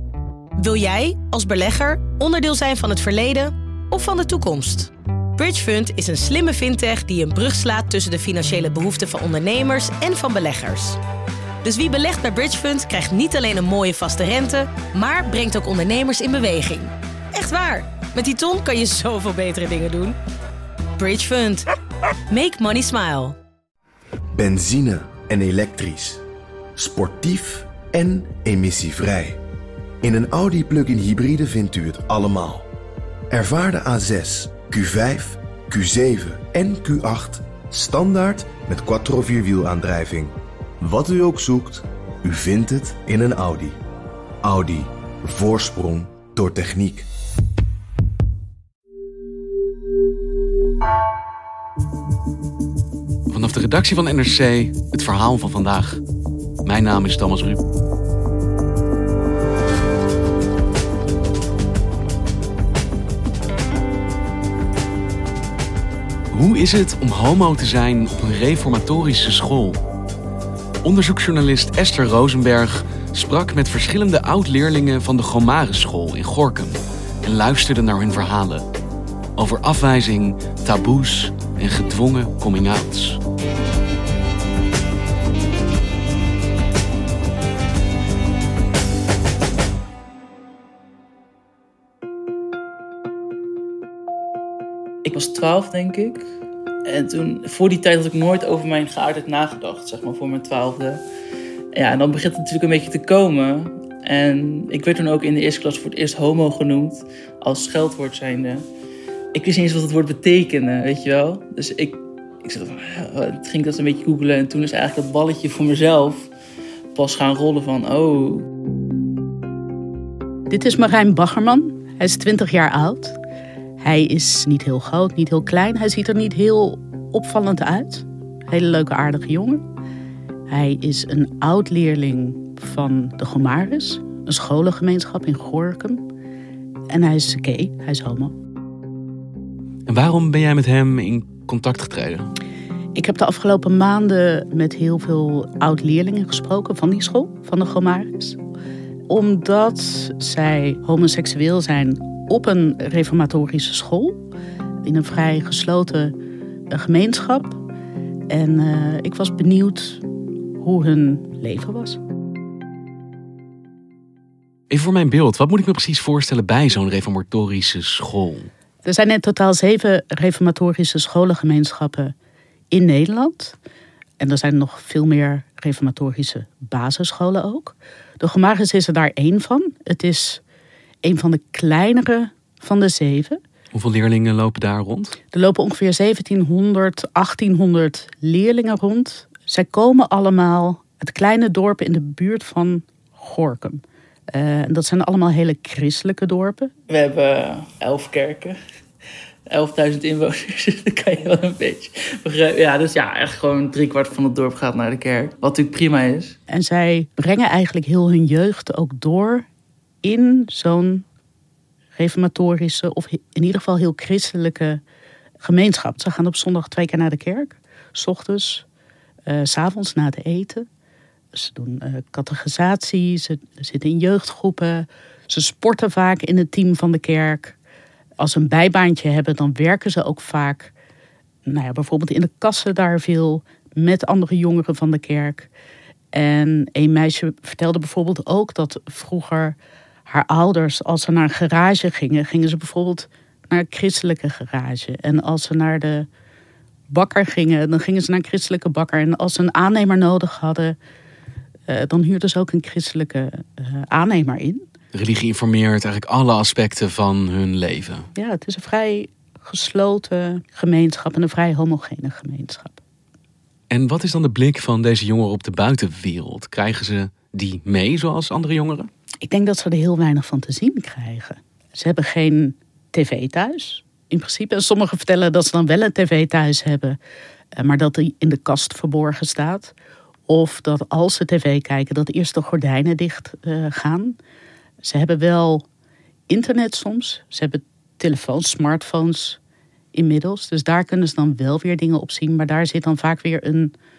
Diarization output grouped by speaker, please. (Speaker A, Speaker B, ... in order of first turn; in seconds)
Speaker A: 0.6-11.0, 11.6-20.2, 21.0-21.6, 22.3-23.4
Speaker B: 24.4-26.2, 26.8-29.4, 30.0-32.7, 33.3-43.8, 44.4-47.1
Speaker C: 53.3-56.0, 56.6-57.6, 66.3-69.8, 70.8-78.7, 79.4-83.2, 139.9-142.3, 164.7-168.5, 183.7-185.2, 254.9-258.1, 263.7-268.9
Speaker D: 95.0-96.3, 96.9-101.0, 101.7-108.7, 109.3-116.3, 116.9-118.5, 196.9-198.6, 199.5-206.4
Speaker E: 120.5-123.2, 123.8-129.6, 130.5-136.1, 136.9-138.3, 142.9-148.4, 149.1-154.3, 154.8-156.2, 156.7-157.6, 158.3-160.1, 160.6-162.0, 168.8-172.1, 172.7-173.6, 174.2-180.4, 181.0-183.4, 185.3-196.7, 206.5-209.5, 210.0-211.1, 211.9-214.8, 215.4-218.7, 219.3-220.7, 221.3-227.6, 228.2-230.7, 231.4-235.5, 236.1-246.1, 246.9-250.8, 251.7-254.6, 258.1-262.8, 269.2-277.0, 277.6-279.7, 280.3-284.2, 284.8-285.7, 286.3-289.4, 289.9-293.8